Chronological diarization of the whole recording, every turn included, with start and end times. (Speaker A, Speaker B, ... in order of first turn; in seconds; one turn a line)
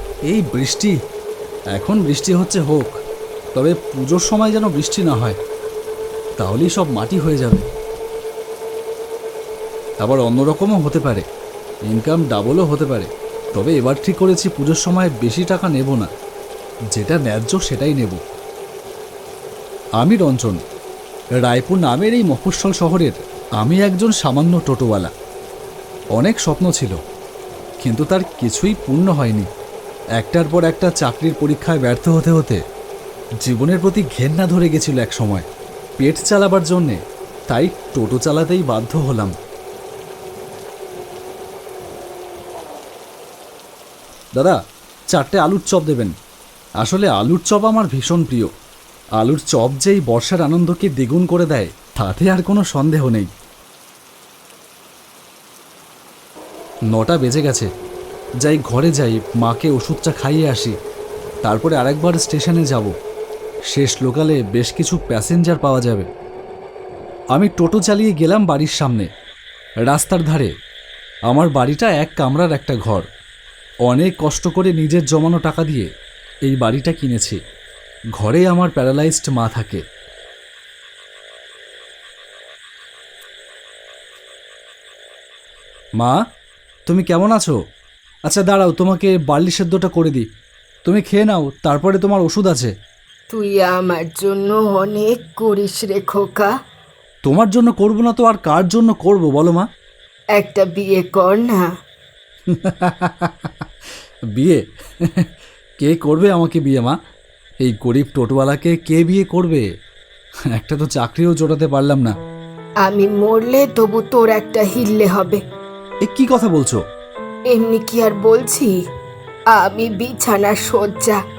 Speaker A: 0.2-0.9
Speaker A: 1.7-2.9
Speaker A: 3.5-5.4
Speaker A: 6.4-7.7
Speaker A: 10.0-11.2
Speaker A: 11.9-16.1
Speaker A: 16.9-18.2
Speaker A: 20.0-20.6
Speaker A: 21.4-25.1
Speaker A: 26.1-26.9
Speaker A: 27.8-29.5
Speaker A: 30.2-32.6
Speaker A: 33.4-35.5
Speaker A: 36.0-37.0
Speaker A: 37.5-39.3
Speaker A: 45.1-46.1
Speaker A: 46.8-48.5
Speaker A: 49.2-53.3
Speaker A: 56.9-57.7
Speaker A: 58.4-60.7
Speaker A: 61.4-62.9
Speaker A: 63.7-66.1
Speaker A: 67.3-69.1
Speaker A: 69.8-70.5
Speaker A: 71.3-73.0
Speaker A: 73.8-75.9
Speaker A: 76.5-77.4
Speaker A: 78.2-79.8
Speaker A: 86.9-87.5
Speaker A: 88.3-90.2
Speaker A: 90.8-92.7
Speaker B: 93.3-96.5
Speaker A: 97.2-99.7
Speaker B: 100.3-101.7
Speaker A: 102.5-103.7
Speaker A: 104.3-105.3
Speaker A: 105.8-107.0
Speaker A: 107.6-109.6
Speaker A: 110.5-112.2
Speaker B: 112.8-115.4
Speaker A: 116.0-116.8
Speaker B: 117.5-118.8
Speaker B: 119.5-121.2